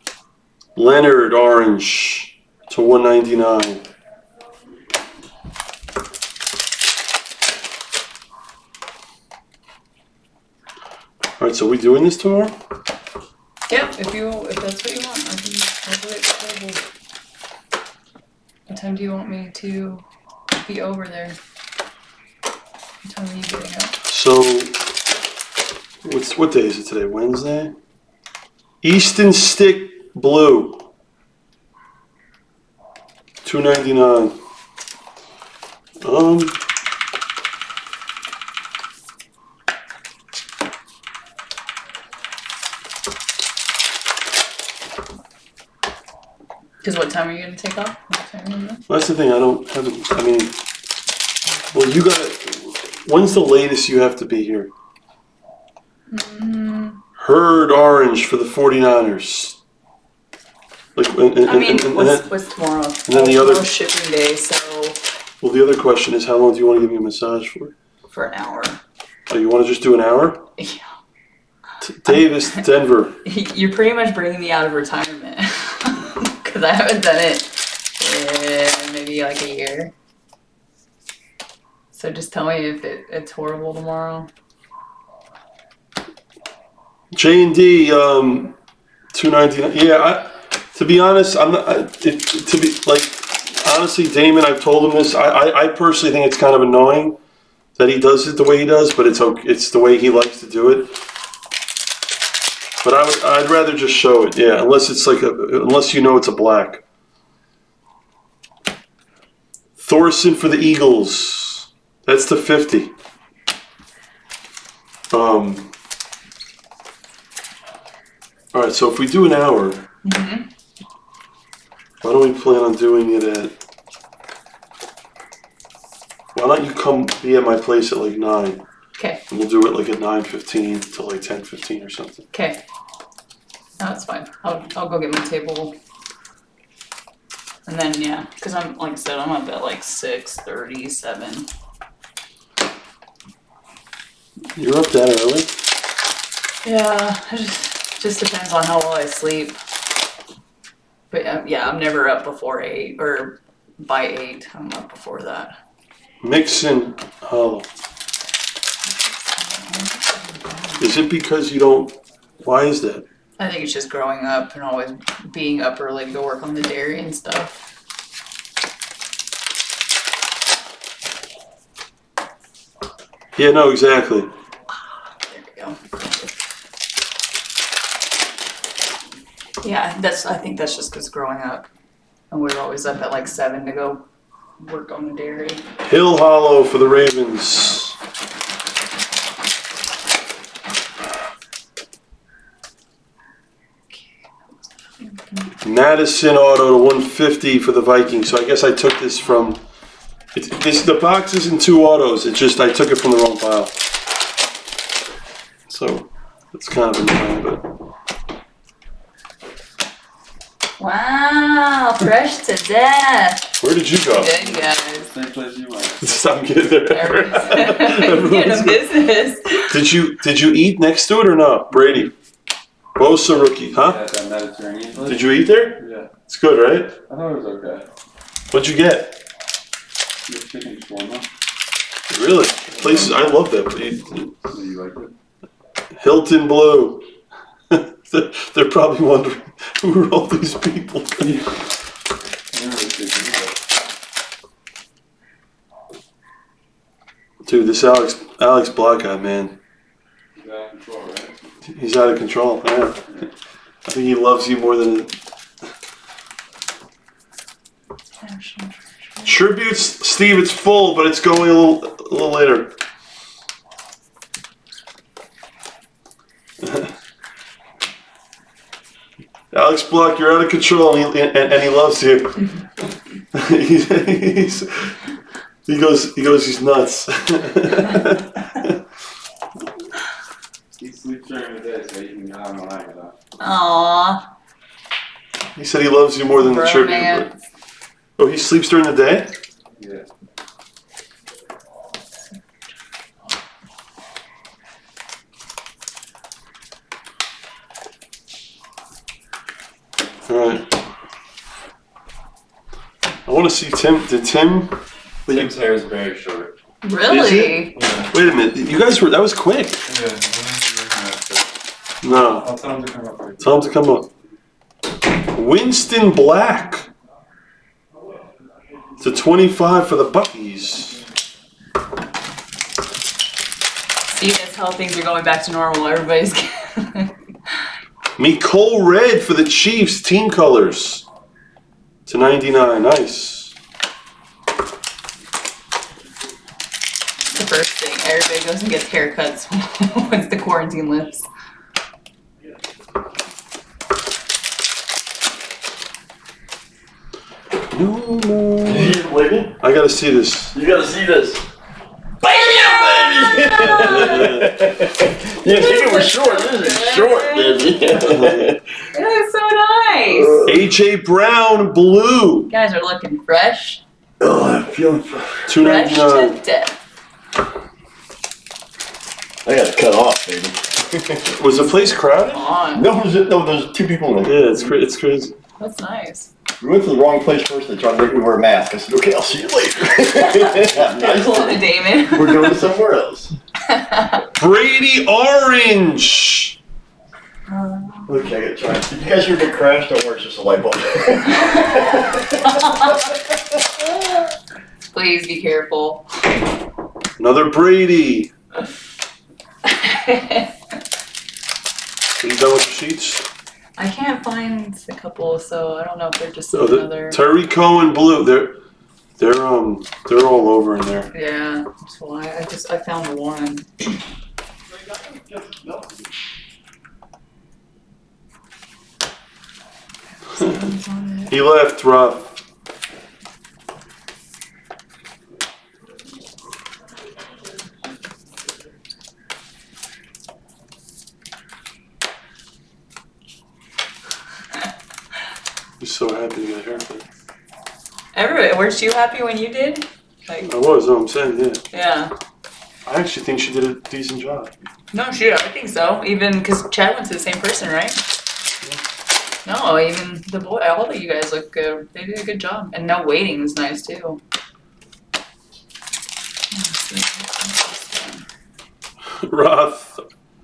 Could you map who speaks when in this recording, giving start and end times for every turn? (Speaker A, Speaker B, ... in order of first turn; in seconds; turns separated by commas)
Speaker A: 0.8-3.8, Speaker A: 11.4-12.6, Speaker B: 13.7-16.8, Speaker B: 18.7-20.0, Speaker B: 20.6-21.4, Speaker B: 23.0-24.0, Speaker A: 24.1-24.8, Speaker A: 26.0-27.7, Speaker A: 28.8-30.9, Speaker A: 33.4-34.4, Speaker A: 36.0-36.6, Speaker B: 46.8-48.8, Speaker A: 48.9-50.5, Speaker A: 51.7-54.7, Speaker B: 56.1-57.0, Speaker A: 57.2-59.6, Speaker A: 61.0-62.3, Speaker B: 61.4-65.0, Speaker A: 63.1-63.7, Speaker A: 65.4-67.7, Speaker B: 68.1-68.8, Speaker A: 69.3-70.5, Speaker B: 70.6-70.9, Speaker A: 71.8-73.2, Speaker B: 72.1-72.6, Speaker B: 73.2-79.9, Speaker B: 81.9-84.3, Speaker A: 87.2-88.5, Speaker A: 89.1-97.2, Speaker A: 97.8-100.9, Speaker A: 102.8-106.8, Speaker A: 109.8-112.9, Speaker A: 115.1-115.7, Speaker A: 118.5-119.8, Speaker B: 120.0-120.5, Speaker A: 122.0-123.5, Speaker A: 126.3-128.6, Speaker A: 129.3-132.3, Speaker B: 132.3-132.6, Speaker B: 133.8-135.8, Speaker B: 137.7-141.5, Speaker A: 144.6-145.5, Speaker B: 146.6-149.6, Speaker B: 151.1-155.6, Speaker A: 156.2-157.7, Speaker B: 158.8-160.8, Speaker A: 160.8-163.0, Speaker B: 163.4-167.6, Speaker A: 173.3-174.3, Speaker B: 175.2-176.3, Speaker B: 179.6-181.7, Speaker B: 182.3-184.0, Speaker B: 184.6-185.6, Speaker A: 185.8-188.0, Speaker B: 193.9-195.5, Speaker A: 195.6-199.6, Speaker A: 200.3-203.7, Speaker A: 205.7-207.6, Speaker B: 210.8-213.5, Speaker A: 213.6-214.3, Speaker B: 214.1-215.1, Speaker C: 214.3-216.1, Speaker A: 216.0-218.8, Speaker B: 216.9-219.7, Speaker A: 219.7-222.1, Speaker A: 223.0-224.0, Speaker C: 223.8-225.2, Speaker A: 225.1-226.9, Speaker C: 225.8-226.1, Speaker C: 227.1-227.9, Speaker A: 228.5-229.2, Speaker C: 230.3-231.3, Speaker A: 232.1-234.3, Speaker C: 232.8-233.2, Speaker C: 234.5-235.1, Speaker A: 236.0-237.0, Speaker A: 237.7-241.3, Speaker C: 242.5-243.5, Speaker A: 247.4-249.6, Speaker C: 250.3-251.5, Speaker A: 251.7-253.1, Speaker A: 253.8-255.1, Speaker B: 258.2-259.4, Speaker A: 259.2-262.8, Speaker A: 266.6-266.9, Speaker A: 269.5-272.5, Speaker A: 273.3-275.0, Speaker A: 275.6-278.8, Speaker C: 280.8-283.1, Speaker B: 283.4-284.2, Speaker A: 285.6-287.3, Speaker B: 286.4-287.4, Speaker A: 288.2-289.3, Speaker C: 289.8-290.1, Speaker A: 300.3-300.7, Speaker A: 303.2-304.8, Speaker C: 305.2-306.5, Speaker B: 306.8-307.8, Speaker A: 307.1-309.8, Speaker C: 307.8-308.1, Speaker C: 309.9-311.5, Speaker A: 312.0-312.5, Speaker C: 312.0-313.7, Speaker A: 313.4-314.1, Speaker A: 315.3-316.9, Speaker A: 319.0-321.0, Speaker B: 324.1-327.1, Speaker A: 328.2-331.0, Speaker A: 332.1-333.6, Speaker B: 337.3-341.3, Speaker A: 347.7-349.0, Speaker D: 348.7-349.6, Speaker A: 349.6-350.6, Speaker D: 350.5-351.4, Speaker D: 352.2-358.6, Speaker B: 352.2-354.4, Speaker A: 353.6-354.6, Speaker B: 355.4-357.7, Speaker A: 358.0-358.5, Speaker B: 358.9-360.4, Speaker D: 360.1-360.6, Speaker A: 360.5-362.5, Speaker B: 362.5-363.8, Speaker D: 364.2-365.5, Speaker A: 365.5-366.4, Speaker B: 365.6-366.8, Speaker D: 369.4-371.3, Speaker A: 371.3-372.4, Speaker B: 371.7-372.9, Speaker D: 372.7-374.7, Speaker A: 374.2-375.4, Speaker B: 375.6-376.3, Speaker D: 376.6-383.4, Speaker B: 380.0-382.6, Speaker B: 383.7-384.2, Speaker A: 384.4-386.6, Speaker B: 387.5-388.3, Speaker D: 388.1-392.4, Speaker B: 391.3-393.1, Speaker B: 394.9-396.1, Speaker A: 397.2-398.3, Speaker B: 399.6-400.5, Speaker A: 402.2-403.2, Speaker B: 403.8-407.2, Speaker A: 406.5-408.6, Speaker A: 409.2-411.1, Speaker B: 411.1-414.0, Speaker D: 415.1-415.9, Speaker B: 420.3-421.4, Speaker A: 421.3-422.4, Speaker A: 435.8-437.1, Speaker B: 438.1-440.5, Speaker A: 440.4-441.6, Speaker B: 441.7-442.1, Speaker A: 442.9-444.5, Speaker B: 444.9-448.0, Speaker B: 449.5-454.2, Speaker B: 456.5-458.2, Speaker A: 459.2-460.1